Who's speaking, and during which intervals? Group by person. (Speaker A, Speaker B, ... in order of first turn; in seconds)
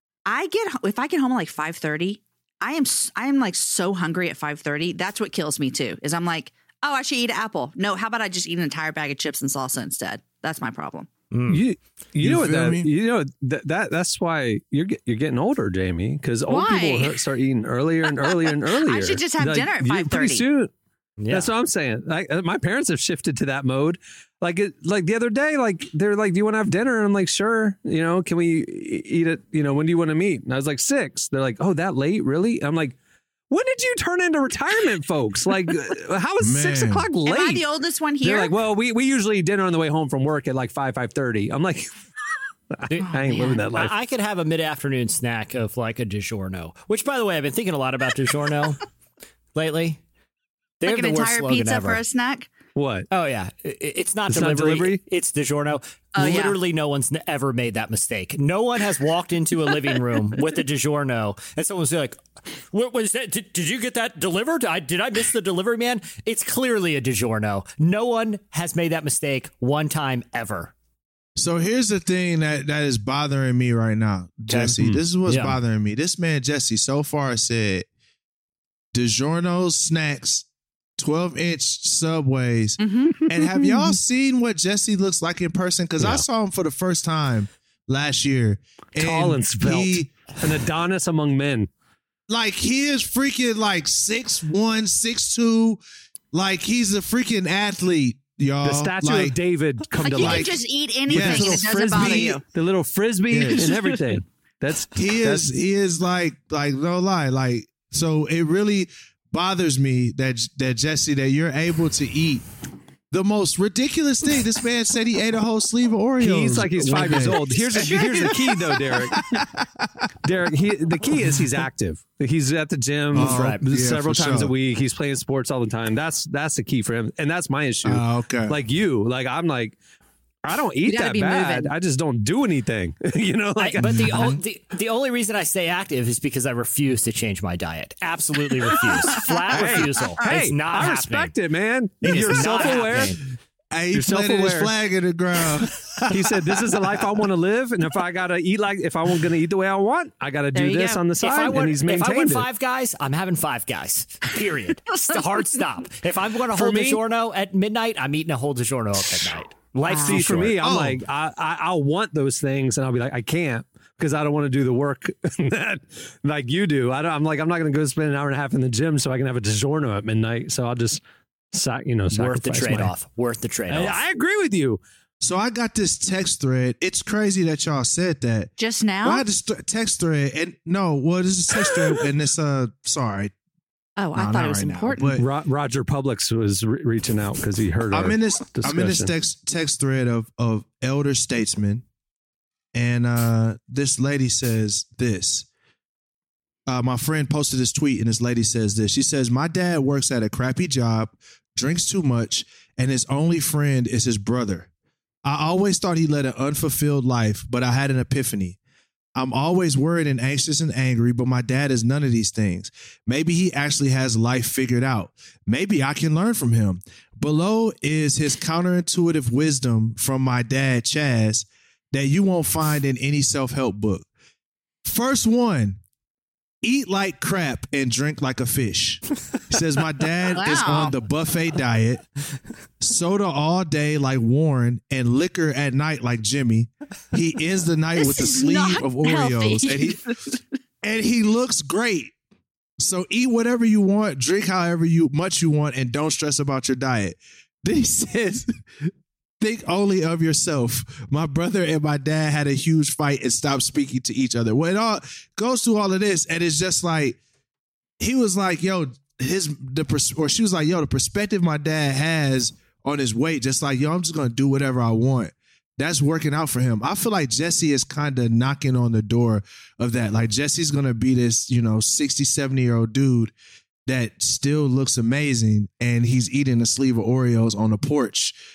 Speaker A: 0.3-11.1, 16.5-17.2, 18.1-20.4, 37.2-38.5, 43.0-43.6, 50.8-52.5, 56.2-56.6, 82.8-83.9, 100.0-102.4, 130.9-131.7, 150.5-151.1, 159.8-160.2, 178.6-179.2, 184.0-185.2, 230.3-230.9, 238.0-240.4
Speaker B: 11.3-11.6, 21.2-21.5, 42.9-48.8, 49.5-50.0, 50.8-52.0, 53.1-62.2, 62.7-70.7, 74.5-75.6, 123.1-123.6, 133.6-141.3, 142.0-143.2, 151.2-160.6, 172.1-174.0
Speaker C: 11.5-20.7, 21.3-33.0, 33.5-37.6, 38.2-41.9, 42.8-43.9, 52.8-53.1, 54.3-55.0, 89.0-91.7, 98.6-105.5, 116.2-119.4, 120.2-129.8, 130.4-134.3, 139.5-143.2, 143.9-144.7, 146.1-152.5, 156.5-157.0, 160.0-171.0, 171.5-172.9, 173.7-174.8, 185.2-189.1
Speaker D: 12.2-12.9, 36.4-37.1, 71.4-77.9, 78.9-80.5, 81.0-90.1, 92.3-95.8, 96.3-99.4, 100.1-102.4, 103.3-103.7, 105.0-112.4, 113.1-120.1, 123.1-124.5, 127.8-128.6, 133.9-134.4, 142.1-142.4, 143.7-147.0, 160.4-161.0, 175.2-183.3, 184.1-185.2, 187.9-191.8, 192.7-195.5, 196.7-204.7, 205.2-208.6, 209.2-224.1, 224.8-225.8, 226.6-232.1, 232.8-240.1, 240.8-242.1, 242.8-248.9, 249.4-257.2, 258.0-273.3, 273.9-278.4